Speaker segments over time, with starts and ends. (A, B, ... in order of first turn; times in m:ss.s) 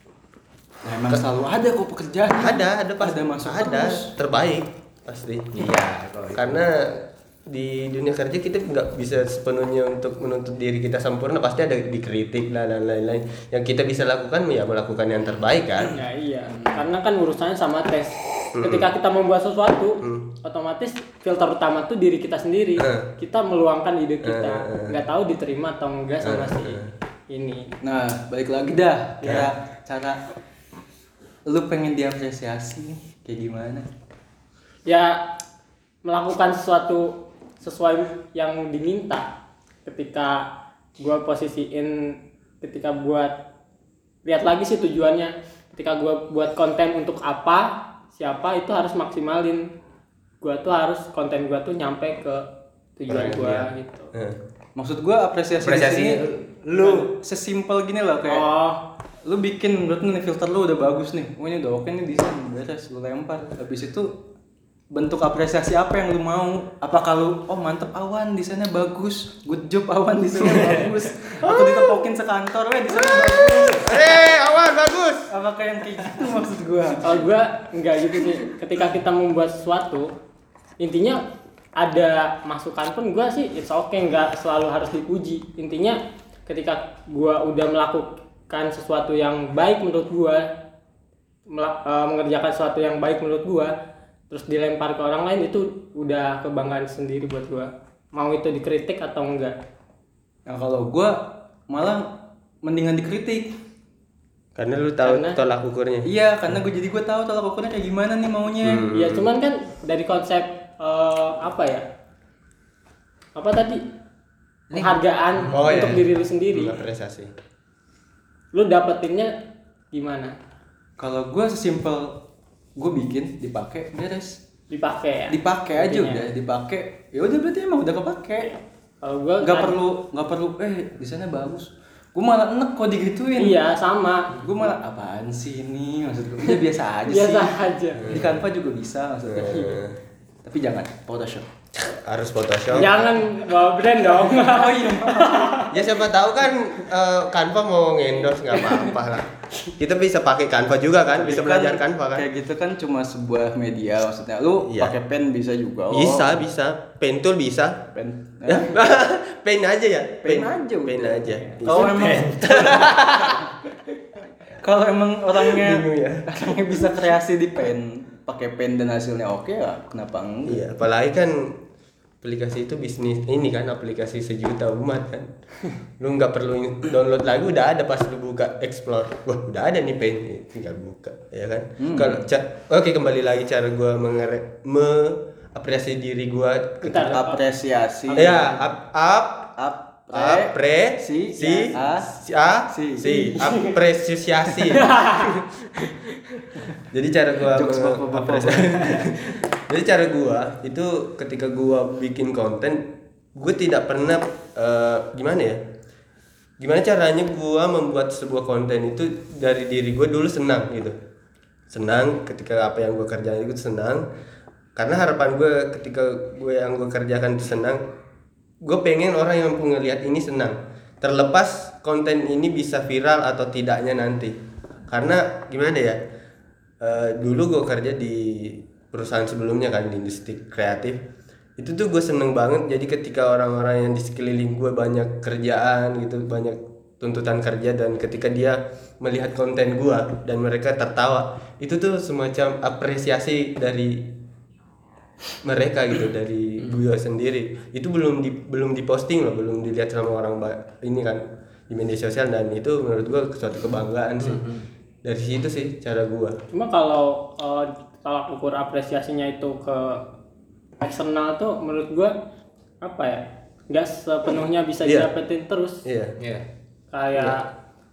0:00.8-0:04.1 A
0:02.3-0:05.7 B
0:05.5-0:06.6 C
0:06.3-0:16.0 B
0:15.9-0:27.7 D
0:18.5-0:18.9 B
0:20.0-0:20.3 B
0:22.8-0:23.1 B
0:24.2-0:25.0 B
0:26.2-0:26.9 B
0:27.8-0:30.2 A
0:29.2-0:29.5 B
0:31.4-0:33.9 A
0:34.8-0:35.2 D
0:36.0-0:39.3 D
0:39.8-0:40.4 D
0:41.0-0:43.3 D
0:44.2-0:49.6 D
0:50.4-0:52.4 D
0:53.0-0:54.1 D
0:53.1-0:54.4 B
0:54.8-0:58.5 A
0:55.6-0:57.1 C
0:58.3-0:58.8 D
0:59.2-1:04.1 A
1:04.9-1:14.2 A
1:10.4-1:10.7 C
1:11.4-1:12.0 B
1:13.0-1:15.3 B
1:15.3-1:17.3 A
1:17.0-1:20.1 D
1:20.8-1:21.2 D
1:21.8-1:30.5 D
1:31.5-1:33.7 D
1:34.3-1:39.5 D
1:40.5-1:43.5 A
1:44.5-1:46.1 B
1:45.0-1:45.4 D
1:46.0-1:48.9 A
1:48.6-1:49.3 B
1:48.9-1:51.8 D
1:53.4-1:53.8 D
1:54.7-1:55.9 C
1:54.7-1:56.8 D
1:55.5-1:57.3 B
1:58.5-1:59.3 D
1:59.9-2:00.3 D
2:01.0-2:02.2 A
2:02.8-2:04.4 A
2:04.7-2:06.2 D
2:05.3-2:08.5 A
2:08.4-2:09.8 D
2:09.4-2:13.6 A
2:13.4-2:14.7 D
2:14.4-2:19.8 A
2:16.4-2:18.2 D
2:18.0-2:18.3 B
2:19.3-2:20.0 B
2:20.4-2:21.5 A
2:21.7-2:23.2 B
2:22.7-2:25.7 D
2:24.2-2:25.7 A
2:25.7-2:32.2 B
2:28.5-2:28.9 D
2:31.1-2:36.4 A
2:34.6-2:34.9 B
2:35.9-2:37.8 B
2:37.9-2:38.7 A
2:38.5-2:43.5 B
2:40.2-2:43.7 A
2:41.7-2:42.9 C
2:44.6-2:50.6 A
2:45.4-2:46.9 B
2:50.5-2:51.6 B
2:52.2-2:55.3 B
2:56.0-3:07.1 B
3:01.8-3:02.3 A
3:06.8-3:07.4 D
3:07.0-3:08.6 A
3:08.1-3:08.5 D
3:08.1-3:09.5 B
3:09.6-3:12.1 A
3:10.1-3:15.3 B
3:12.7-3:13.2 A
3:13.1-3:13.8 D
3:14.7-3:15.3 D
3:16.9-3:22.8 B
3:17.4-3:19.1 A
3:23.3-3:25.6 B
3:26.6-3:30.9 B
3:31.7-3:34.0 B
3:34.8-3:37.8 B
3:38.6-3:44.4 B
3:44.9-3:46.0 B
3:46.8-3:51.0 B
3:51.6-4:04.0 B
4:05.4-4:14.4 B
4:14.2-4:14.6 C
4:15.0-4:16.4 B
4:16.5-4:20.0 D
4:20.8-4:22.1 D
4:22.8-4:25.8 D
4:25.8-4:26.1 B
4:26.2-4:26.4 C
4:26.9-4:27.5 D